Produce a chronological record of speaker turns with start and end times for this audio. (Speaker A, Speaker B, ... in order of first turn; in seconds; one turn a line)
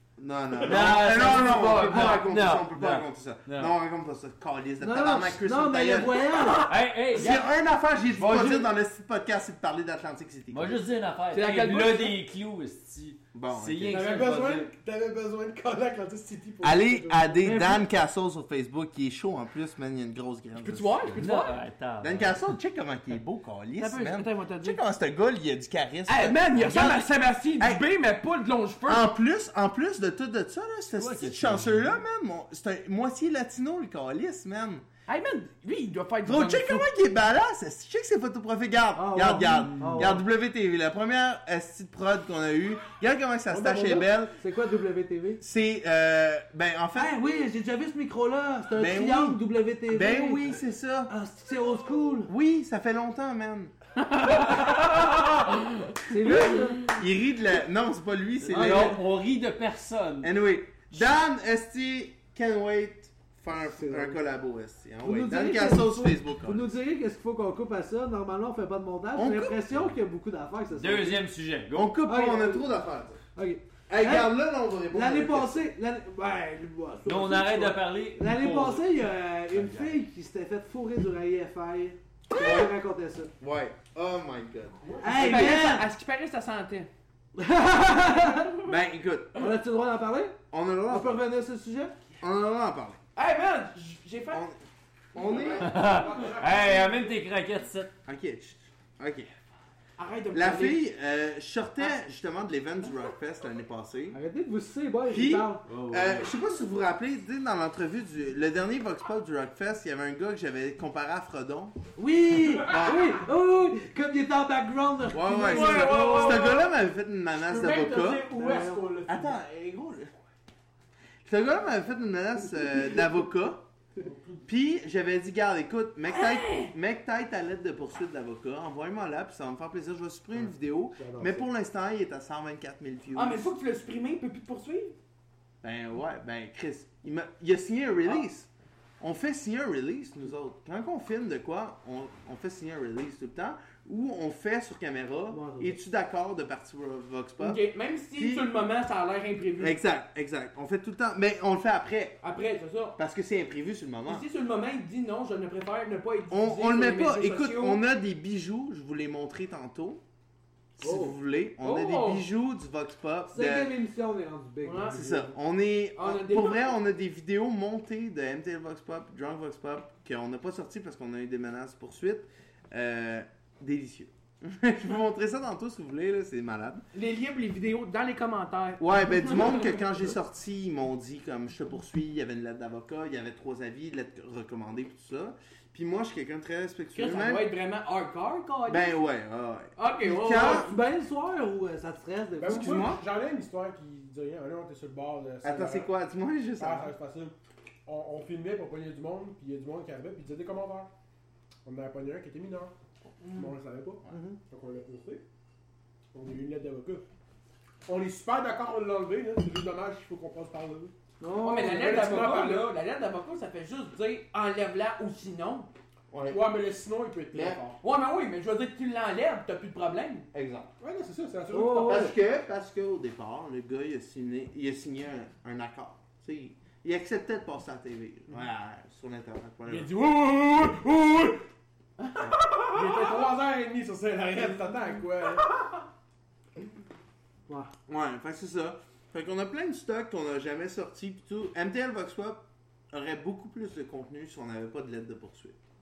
Speaker A: 0.2-6.4
Speaker B: 0.6-3.7
Speaker C: 4.8-6.7
Speaker D: 6.3-7.4
Speaker B: 6.7-7.4
Speaker A: 7.1-10.8
Speaker B: 8.1-8.7
Speaker B: 10.5-14.7
Speaker D: 11.3-12.2
Speaker A: 13.3-14.1
Speaker E: 13.9-17.4
Speaker A: 16.6-21.2
Speaker C: 17.4-17.9
Speaker D: 20.6-21.6
Speaker B: 21.1-22.4
Speaker A: 22.0-27.8
Speaker D: 23.8-24.8
Speaker D: 26.1-29.1
Speaker A: 28.9-34.8
Speaker B: 30.9-31.9
Speaker D: 35.1-36.9
Speaker A: 36.2-44.4
Speaker C: 38.9-40.2
Speaker B: 39.3-40.2
Speaker C: 43.5-45.4
Speaker A: 45.4-47.2
Speaker C: 46.9-50.5
Speaker A: 48.8-51.1
Speaker C: 51.1-52.3
Speaker A: 52.3-53.7
Speaker D: 54.0-55.6
Speaker C: 56.0-56.9
Speaker A: 56.8-59.0
Speaker B: 58.4-60.3
Speaker C: 58.5-59.0
Speaker A: 60.2-66.7
Speaker C: 63.5-64.2
Speaker C: 65.0-71.3
Speaker A: 69.1-69.8
Speaker B: 70.7-71.9
Speaker A: 71.7-73.2
Speaker C: 72.0-72.7
Speaker C: 73.3-74.4
Speaker A: 73.9-75.6
Speaker C: 74.9-83.3
Speaker B: 77.0-80.0
Speaker A: 82.3-82.7
Speaker A: 83.4-84.8
Speaker E: 84.8-85.5
Speaker C: 85.0-85.9
Speaker D: 85.1-86.9
Speaker C: 87.3-88.6
Speaker A: 88.6-89.4
Speaker C: 89.4-91.9
Speaker A: 90.5-91.2
Speaker A: 92.2-93.0
Speaker D: 93.2-94.4
Speaker A: 94.3-94.6
Speaker A: 95.1-95.9
Speaker E: 95.2-97.2
Speaker B: 95.6-97.9
Speaker A: 98.0-99.3
Speaker D: 100.0-100.8
Speaker A: 100.3-104.2
Speaker C: 104.1-105.6
Speaker A: 105.1-111.7
Speaker B: 105.7-106.3
Speaker C: 112.0-116.5
Speaker A: 112.6-113.2
Speaker A: 115.1-118.3
Speaker E: 115.4-116.6
Speaker E: 117.3-119.4
Speaker C: 118.3-118.8
Speaker A: 119.1-120.1
Speaker A: 121.2-123.6
Speaker E: 124.0-124.5
Speaker A: 124.5-133.5
Speaker D: 126.1-126.7
Speaker C: 131.0-131.4
Speaker E: 131.1-131.4
Speaker D: 133.1-134.9
Speaker A: 135.6-138.5
Speaker A: 139.0-147.6
Speaker C: 145.3-145.8
Speaker D: 147.4-149.8
Speaker A: 148.2-148.4
Speaker A: 149.6-152.2
Speaker D: 152.2-153.0
Speaker A: 153.0-154.2
Speaker D: 154.1-157.8
Speaker A: 156.3-160.0
Speaker A: 160.8-163.8
Speaker C: 160.8-161.1
Speaker D: 161.6-162.2
Speaker C: 163.3-165.3
Speaker D: 164.6-165.0
Speaker A: 164.9-176.8
Speaker D: 165.9-166.7
Speaker D: 176.9-179.7
Speaker A: 178.8-187.5
Speaker D: 186.9-189.0
Speaker A: 188.7-190.8
Speaker D: 189.8-190.7
Speaker C: 190.3-192.8
Speaker E: 192.4-195.9
Speaker A: 192.5-193.0
Speaker A: 195.4-196.9
Speaker E: 196.6-197.3
Speaker E: 197.8-200.9
Speaker E: 201.6-202.7
Speaker D: 203.2-203.5
Speaker E: 203.3-205.2
Speaker C: 204.1-204.4
Speaker E: 206.1-207.0
Speaker E: 207.8-210.9
Speaker C: 211.2-212.0
Speaker D: 211.4-215.7
Speaker E: 211.5-212.7
Speaker A: 216.1-216.5
Speaker E: 216.3-217.8
Speaker A: 217.3-217.6
Speaker D: 217.8-220.3
Speaker A: 220.3-220.7
Speaker E: 220.8-222.0
Speaker C: 221.5-222.1
Speaker A: 221.8-229.9
Speaker E: 229.7-231.4
Speaker D: 232.0-233.3
Speaker E: 232.7-235.5
Speaker A: 237.9-245.6